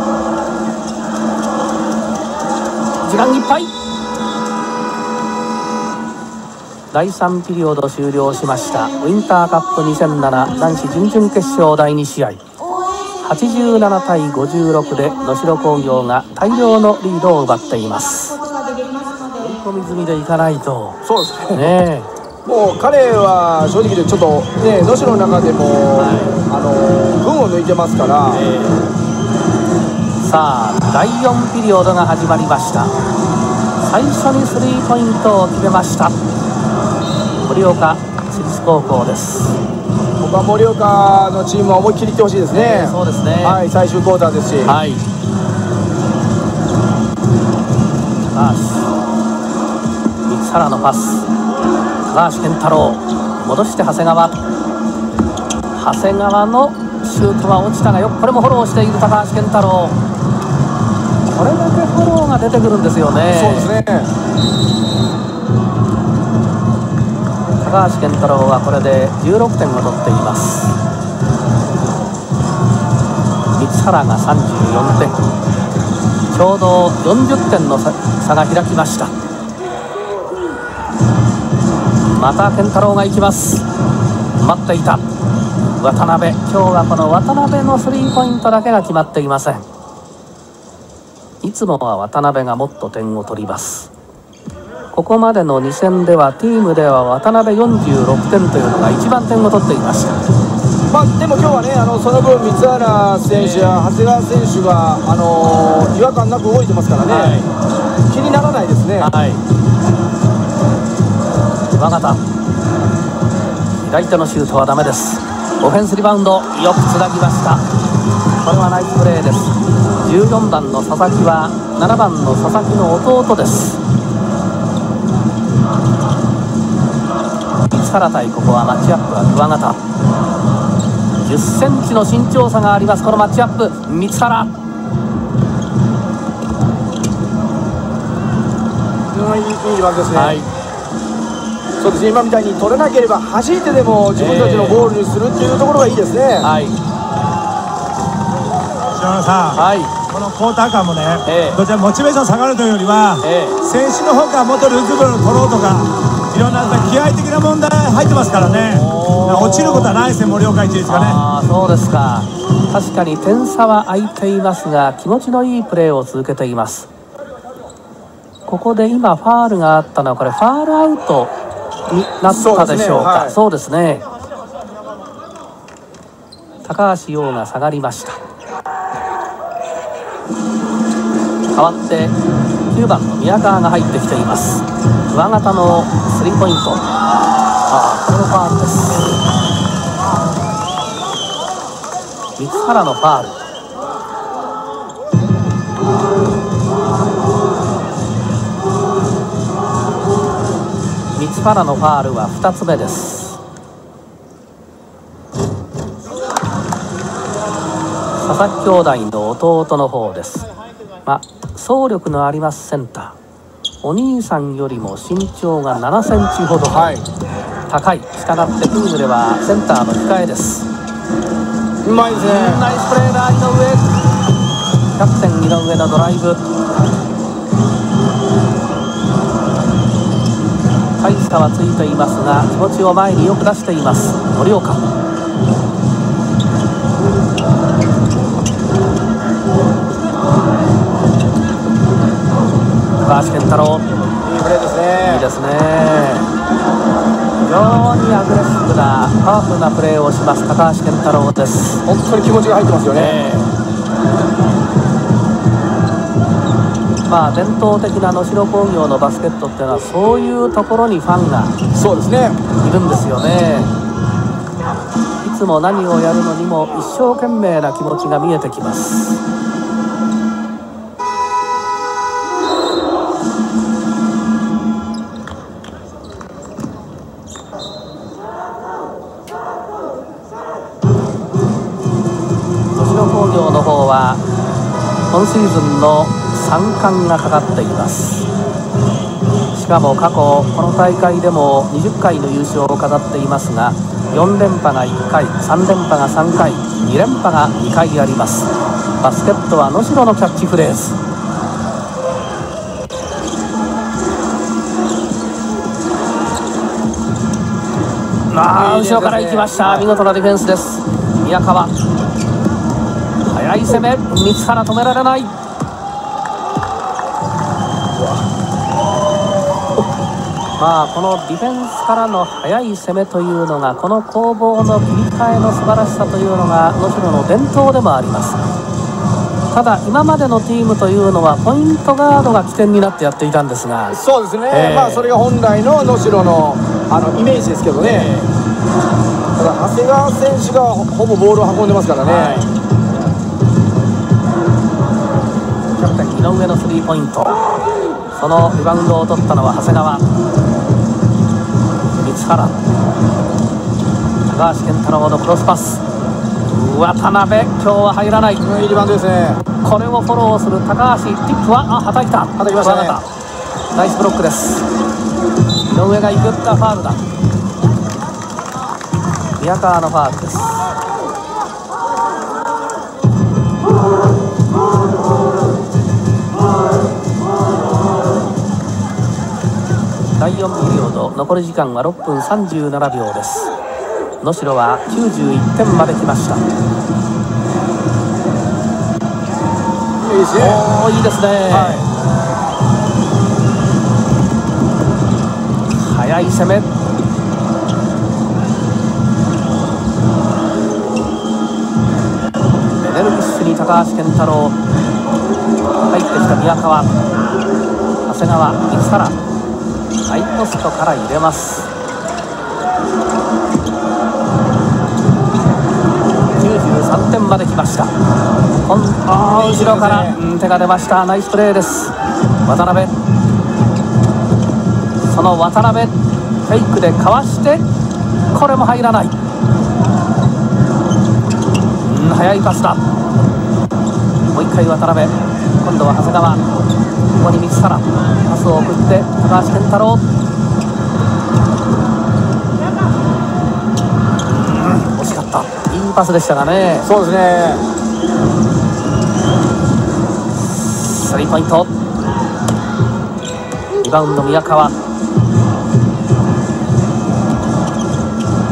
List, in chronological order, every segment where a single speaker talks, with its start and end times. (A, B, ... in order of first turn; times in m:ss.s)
0:03.0-0:03.7 A
0:06.9-0:12.4 A
0:13.2-0:18.5 A
0:19.3-0:21.0 A
0:21.0-0:21.8 B
0:21.5-0:22.1 A
0:22.4-0:28.4 B
0:26.0-0:26.4 A
0:28.3-0:28.9 A
0:30.2-0:32.9 A
0:33.8-0:36.2 A
0:37.4-0:39.6 A
0:40.2-0:44.8 B
0:42.5-0:43.6 A
0:44.6-0:45.0 A
0:48.3-0:48.9 A
0:50.3-0:51.3 A
0:52.1-0:54.4 A
0:55.7-1:00.0 A
1:01.4-1:03.7 A
1:03.3-1:04.1 B
1:07.6-1:10.8 A
1:13.5-1:15.2 A
1:16.3-1:19.1 A
1:22.0-1:23.6 A
1:24.4-1:25.0 A
1:25.8-1:29.7 A
1:31.4-1:33.9 A
1:34.9-1:40.2 A
1:40.8-1:47.4 B
1:43.3-1:43.9 A
1:47.1-1:47.5 A
1:48.1-1:49.1 B
1:49.0-1:49.4 A
1:51.7-1:52.2 A
1:53.8-1:57.6 A
1:58.4-2:03.8 A
2:07.7-2:09.8 A
2:11.2-2:14.5 A
2:19.1-2:20.4 B
2:20.1-2:20.5 A
2:21.8-2:26.5 B
2:24.2-2:24.9 A
2:26.4-2:26.8 A
2:28.9-2:41.2 C
2:29.5-2:29.9 A
2:31.3-2:31.6 A
2:33.2-2:33.6 A
2:38.7-2:40.0 A
2:40.9-2:46.9 A
2:48.5-2:51.3 A
2:51.9-2:54.1 A
2:52.3-2:53.4 B
2:56.6-2:58.2 A
3:01.6-3:02.2 A
3:02.7-3:06.9 A
3:07.7-3:09.0 A
3:12.4-3:13.4 A
3:21.1-3:23.4 A
3:28.2-3:30.5 A
3:31.0-3:33.2 A
3:33.8-3:36.9 A
3:36.7-3:37.0 B
3:37.7-3:40.7 A
3:41.8-3:42.7 B
3:42.1-3:43.9 A
3:45.0-3:46.4 A
3:51.0-3:54.9 A
4:03.0-4:03.9 A
4:04.2-4:05.3 B
4:05.0-4:06.3 A
4:07.4-4:11.8 A
4:11.9-4:13.2 B
4:12.9-4:13.5 A
4:17.1-4:21.6 A
4:21.7-4:22.4 B
4:22.6-4:23.7 A
4:25.2-4:29.2 A
4:42.7-4:44.2 A
4:45.1-4:48.3 A
4:49.6-5:01.0 A
5:08.3-5:11.8 A
5:08.6-5:09.9 B
5:13.3-5:15.3 A
5:20.6-5:28.4 A
5:29.5-5:35.1 A
5:33.9-5:38.1 B
5:37.8-5:38.3 A
5:39.4-5:42.5 B
5:42.0-5:42.5 A
5:45.8-5:47.5 A
5:48.1-5:50.1 A
5:52.0-5:52.6 A
5:54.3-5:55.8 A
5:56.5-5:58.4 A
5:58.4-5:59.4 B
5:59.6-6:03.1 A
6:02.4-6:03.0 B
6:03.7-6:04.6 A
6:05.7-6:07.0 A
6:09.4-6:10.7 A
6:20.2-6:23.5 A
6:24.2-6:26.5 A
6:30.0-6:30.8 B
6:30.4-6:31.8 A
6:31.5-6:31.8 B
6:35.7-6:36.7 A
6:42.8-6:44.6 A
6:45.9-6:46.9 A
6:48.1-6:49.2 A
6:50.0-6:51.7 A
6:56.4-6:57.9 A
6:58.7-7:02.9 A
6:59.1-7:00.2 B
7:05.1-7:05.9 A
7:06.5-7:07.6 A
7:08.3-7:09.1 A
7:11.8-7:12.8 A
7:14.3-7:16.5 A
7:17.2-7:20.0 A
7:24.3-7:26.9 A
7:26.8-7:27.6 B
7:30.6-7:31.7 A
7:33.8-7:34.8 A